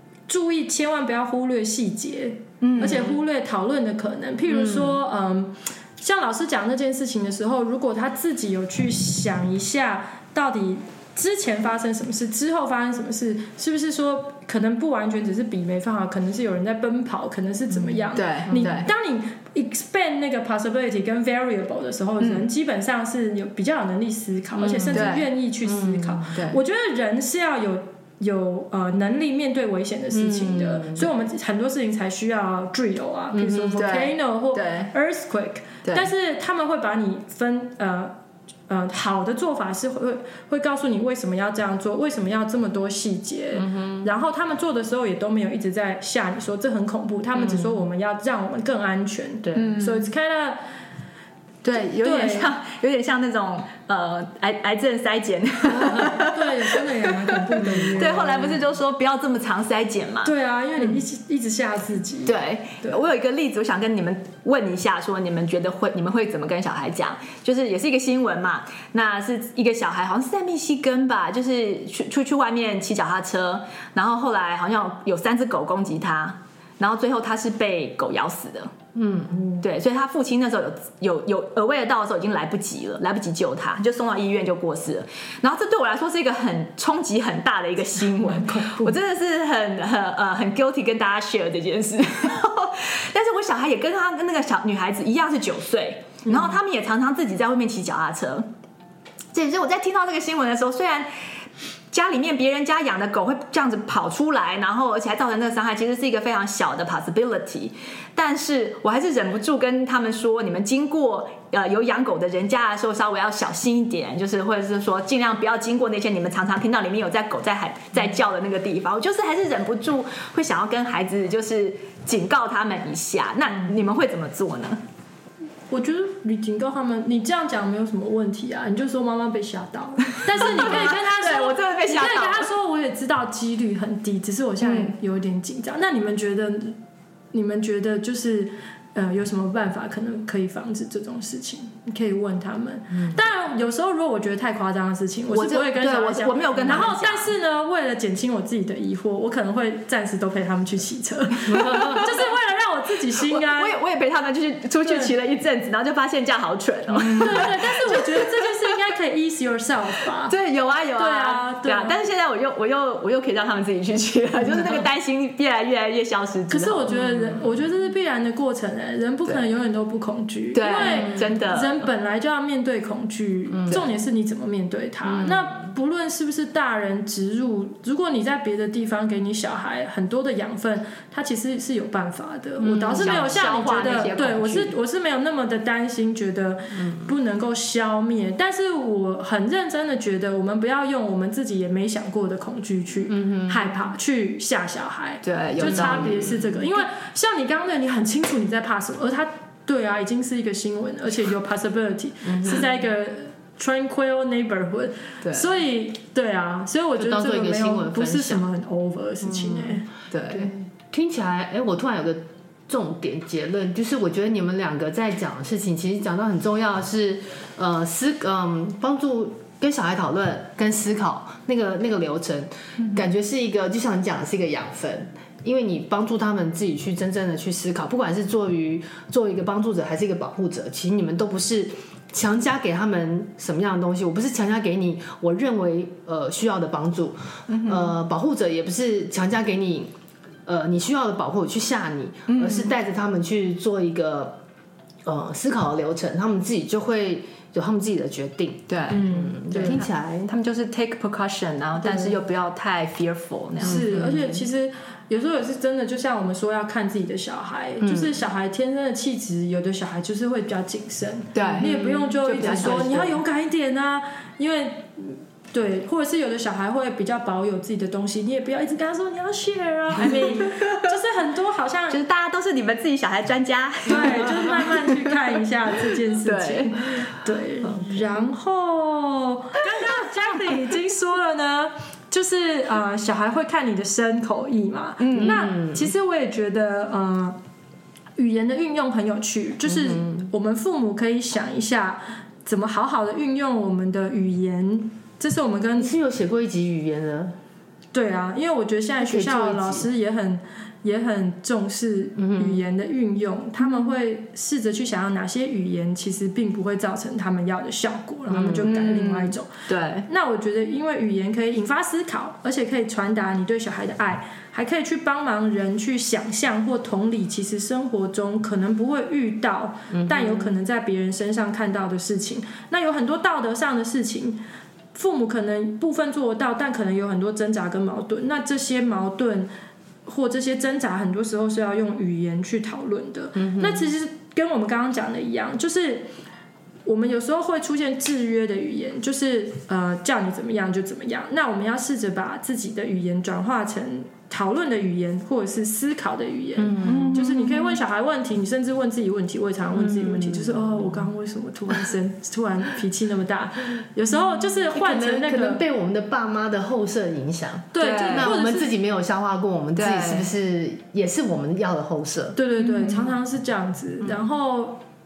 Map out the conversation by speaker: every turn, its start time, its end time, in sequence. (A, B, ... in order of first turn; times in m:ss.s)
0:00.3-0:38.1 A
0:02.6-0:03.1 B
0:04.5-0:04.9 C
0:18.1-0:18.9 B
0:18.5-0:18.8 C
0:22.2-0:22.5 B
0:24.5-0:25.1 C
0:24.9-0:25.3 B
0:25.6-0:26.3 C
0:26.3-0:26.6 B
0:30.1-0:31.1 C
0:33.3-0:33.8 C
0:33.7-0:34.9 B
0:38.7-0:50.6 A
0:43.6-0:44.0 C
0:47.4-0:47.7 C
0:49.4-0:49.7 C
0:49.5-0:50.1 B
0:51.6-1:00.3 B
0:51.9-0:52.5 A
0:55.8-0:58.6 A
0:57.6-0:58.2 C
1:00.2-1:03.0 A
1:02.2-1:18.7 B
1:18.9-1:19.4 C
1:19.6-1:38.4 B
1:28.2-1:28.9 A
1:36.2-1:36.5 A
1:39.3-1:41.1 B
1:41.9-2:04.8 B
2:05.7-2:16.8 A
2:10.3-2:12.5 B
2:14.6-2:14.9 B
2:17.3-2:33.8 A
2:25.3-2:27.3 B
2:31.5-2:32.0 C
2:31.8-2:32.0 B
2:33.2-2:38.5 B
2:34.8-2:35.1 A
2:37.0-2:40.3 A
2:40.3-2:46.9 B
2:41.0-2:42.0 A
2:46.5-3:29.9 A
2:47.0-2:47.3 C
2:50.5-2:51.9 B
2:50.9-2:51.2 C
3:02.6-3:03.2 C
3:02.9-3:04.7 B
3:13.1-3:13.6 C
3:15.2-3:16.4 B
3:15.6-3:16.4 C
3:22.3-3:22.6 C
3:25.2-3:25.5 B
3:27.0-3:28.4 C
3:29.2-3:29.8 C
3:30.1-3:30.5 B
3:30.3-3:59.9 C
3:57.5-3:57.9 B
4:00.4-4:04.4 C
4:02.3-4:02.7 B
4:05.0-4:10.3 C
4:08.7-4:14.2 B
4:08.9-4:09.8 A
4:11.8-4:12.1 A
4:13.6-4:32.0 A
4:13.6-4:14.4 C
4:17.8-4:18.1 C
4:21.3-4:23.1 B
4:21.4-4:23.1 C
4:30.0-4:30.9 B
4:31.9-4:35.1 B
4:33.8-4:47.4 A
4:36.2-4:37.0 B
4:45.0-4:45.4 B
4:45.1-4:45.9 C
4:48.2-4:55.9 A
4:49.7-4:50.3 C
4:55.8-4:57.4 C
4:57.9-5:09.5 A
4:59.0-4:59.9 C
5:02.2-5:02.6 C
5:08.3-5:08.7 C
5:08.5-5:10.1 B
5:10.1-5:24.4 A
5:19.9-5:20.5 C
5:24.9-5:29.5 A
5:30.0-5:36.1 A
5:33.4-5:33.9 C
5:36.8-5:55.6 A
5:46.6-5:47.2 C
5:46.8-5:47.8 B
5:49.7-5:51.0 C
5:54.6-6:02.4 C
5:57.7-5:58.7 A
5:57.8-5:58.3 B
5:59.8-6:00.3 B
6:02.3-6:04.8 A